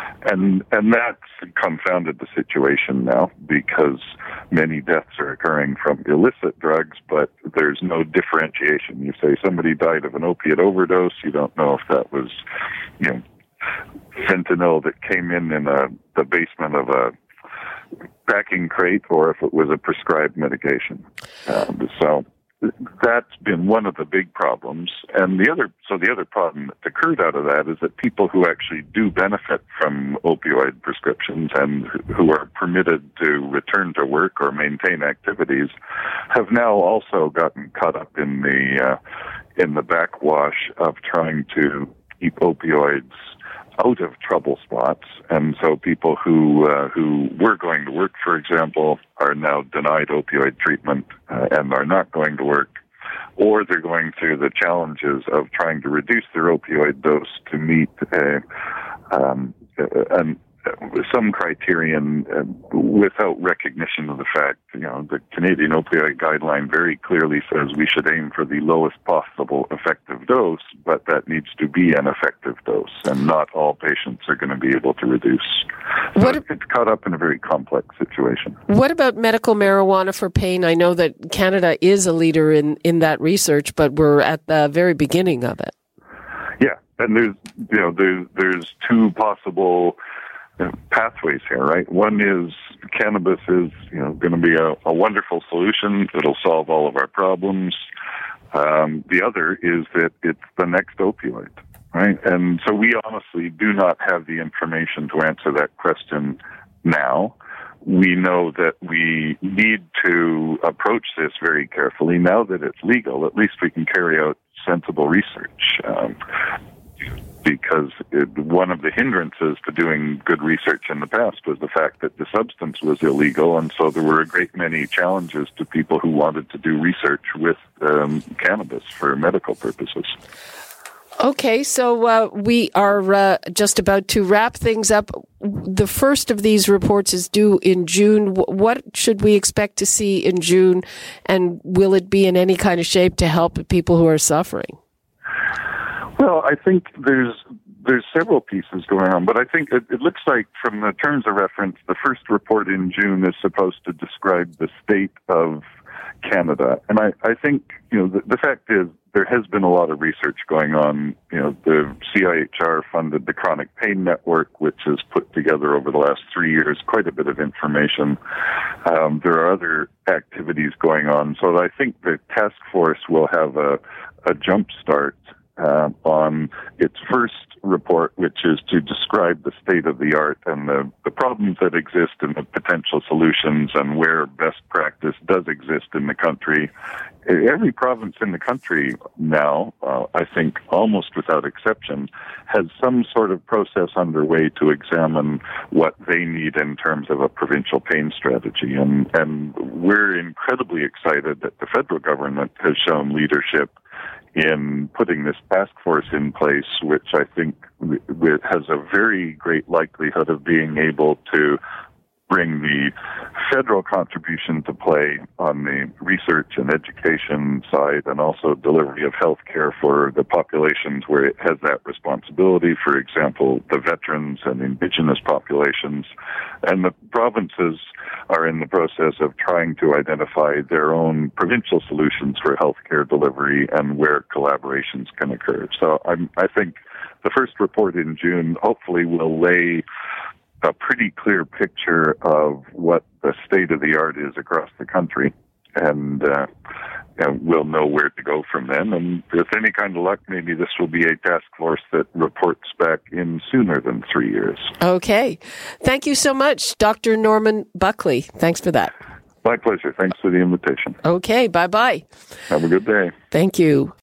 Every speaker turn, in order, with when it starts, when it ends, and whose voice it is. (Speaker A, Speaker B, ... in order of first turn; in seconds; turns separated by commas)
Speaker A: 0.2-12.4, Speaker A: 14.1-17.1, Speaker A: 18.2-35.7, Speaker A: 36.3-39.0, Speaker A: 39.5-43.1, Speaker A: 43.8-52.7, Speaker A: 53.4-58.4, Speaker A: 59.1-78.6, Speaker B: 78.7-85.7, Speaker A: 86.6-90.0, Speaker A: 90.6-97.8, Speaker A: 98.5-116.2, Speaker A: 117.4-130.1, Speaker B: 131.2-144.8, Speaker A: 146.2-155.7, Speaker A: 156.2-168.2, Speaker A: 168.8-186.7, Speaker A: 187.2-203.7, Speaker A: 204.3-211.6, Speaker A: 212.3-226.1, Speaker A: 226.6-239.8, Speaker A: 240.6-246.5, Speaker A: 247.2-254.7, Speaker B: 254.8-258.9, Speaker A: 259.4-261.0, Speaker B: 261.0-262.1, Speaker A: 262.5-263.1, Speaker B: 263.3-263.9